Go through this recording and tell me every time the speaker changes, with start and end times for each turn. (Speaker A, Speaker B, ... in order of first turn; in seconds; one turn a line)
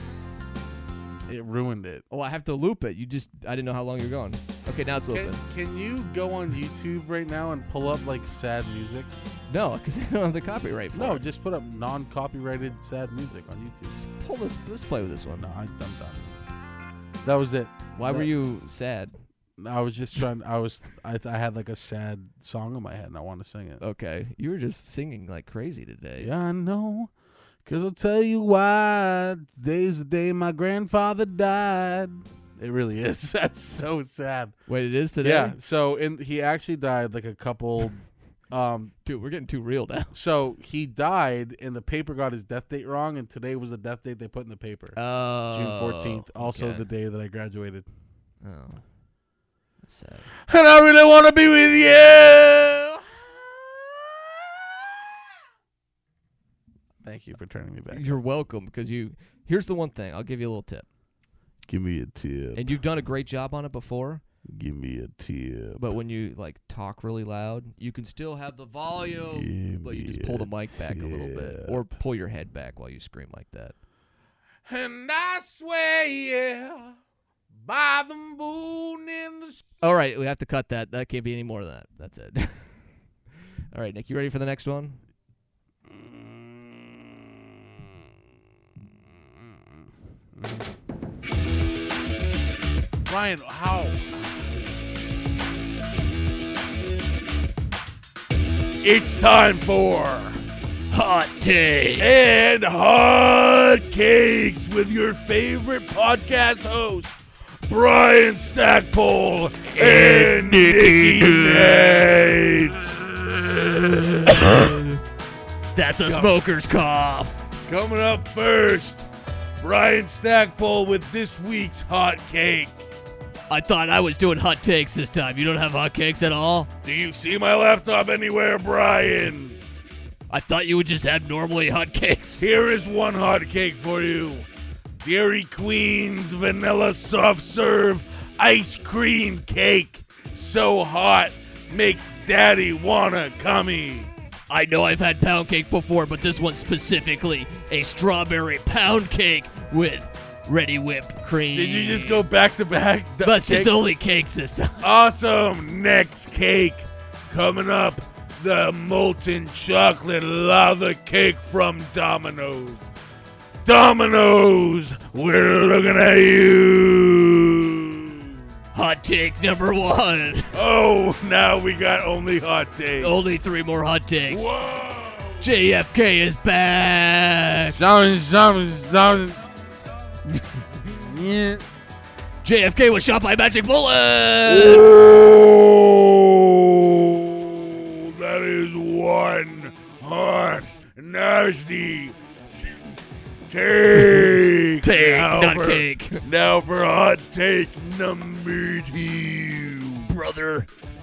Speaker A: 1.3-2.0
Speaker B: 2.1-5.4
Speaker A: 5.1-9.1
Speaker B: 9.5-11.2
Speaker A: 10.9-13.9
Speaker B: 13.9-15.5
Speaker A: 15.4-16.3
Speaker A: 17.2-18.3
Speaker B: 17.9-19.1
Speaker A: 19.6-23.8
Speaker B: 23.8-26.3
Speaker A: 26.2-27.1
Speaker A: 27.6-34.5
Speaker B: 34.7-35.6
Speaker A: 35.2-38.9
Speaker B: 39.0-40.1
Speaker A: 40.1-45.0
Speaker B: 44.9-46.9
Speaker A: 45.5-47.9
Speaker B: 48.4-48.8
Speaker B: 49.8-50.3
Speaker A: 50.4-55.0
Speaker A: 57.0-58.1
Speaker B: 57.9-60.9
Speaker A: 61.7-62.7
Speaker B: 62.5-64.2
Speaker A: 64.5-65.8
Speaker B: 65.8-73.7
Speaker A: 69.3-71.8
Speaker A: 74.7-77.0
Speaker A: 77.6-79.7
Speaker B: 79.8-82.9
Speaker B: 83.7-85.0
Speaker A: 85.9-87.2
Speaker A: 89.3-90.7
Speaker A: 93.1-94.2
Speaker A: 98.8-100.4
Speaker B: 100.9-102.5
Speaker A: 102.0-107.1
Speaker A: 107.7-114.8
Speaker B: 109.7-112.0
Speaker B: 114.3-115.0
Speaker B: 115.7-117.4
Speaker A: 116.0-116.3
Speaker A: 117.7-119.0
Speaker A: 119.6-122.7
Speaker B: 123.5-126.7
Speaker A: 126.8-129.6
Speaker B: 130.3-132.5
Speaker A: 132.4-134.4
Speaker A: 135.0-144.1
Speaker B: 144.5-152.2
Speaker A: 151.5-153.8
Speaker B: 153.2-154.9
Speaker A: 154.8-162.9
Speaker A: 163.6-168.3
Speaker B: 168.7-170.5
Speaker A: 170.5-173.2
Speaker B: 173.0-174.5
Speaker A: 174.3-175.4
Speaker B: 175.4-177.8
Speaker A: 177.7-179.4
Speaker B: 180.3-180.8
Speaker A: 180.8-181.6
Speaker B: 182.4-184.9
Speaker A: 184.4-192.9
Speaker A: 193.5-200.1
Speaker B: 193.9-196.2
Speaker B: 200.1-200.7